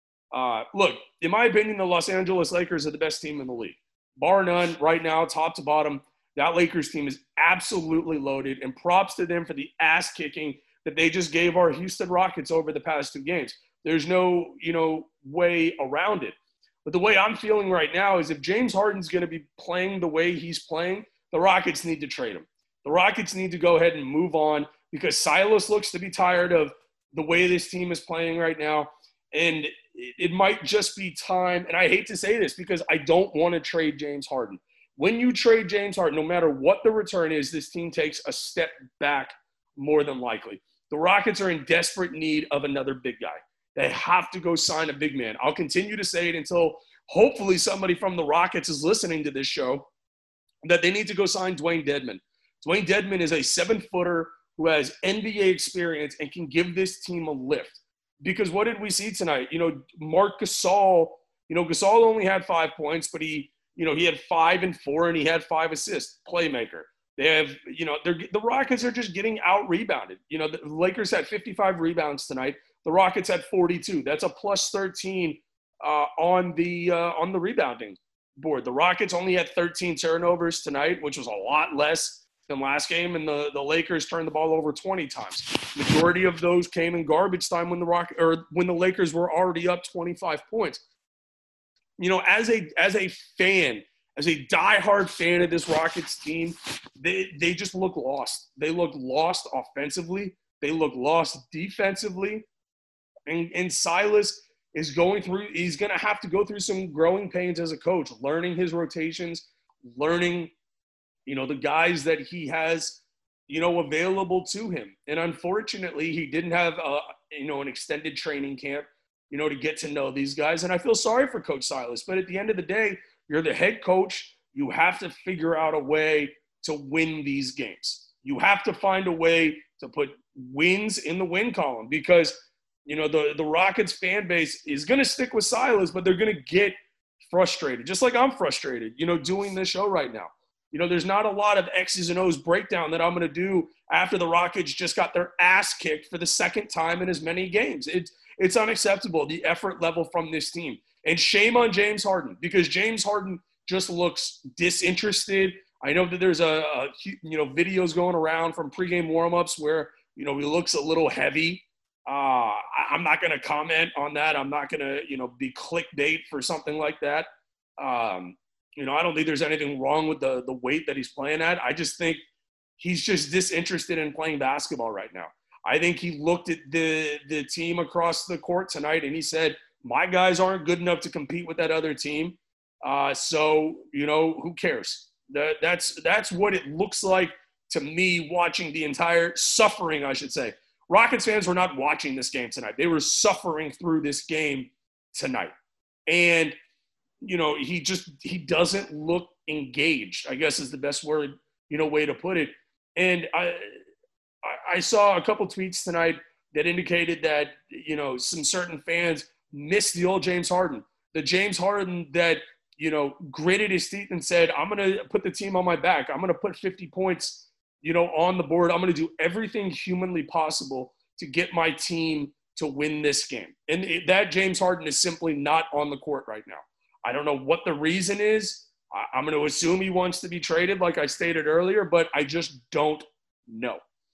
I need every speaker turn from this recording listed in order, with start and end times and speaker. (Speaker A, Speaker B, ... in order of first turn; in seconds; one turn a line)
Speaker A: 0.3-16.4
Speaker A: 16.9-49.9
Speaker A: 50.6-90.8
Speaker A: 92.0-102.5
Speaker A: 103.3-110.5
Speaker A: 111.2-172.2
Speaker A: 172.8-195.5
Speaker A: 196.1-196.6
Speaker A: 197.2-203.7
Speaker A: 204.4-233.8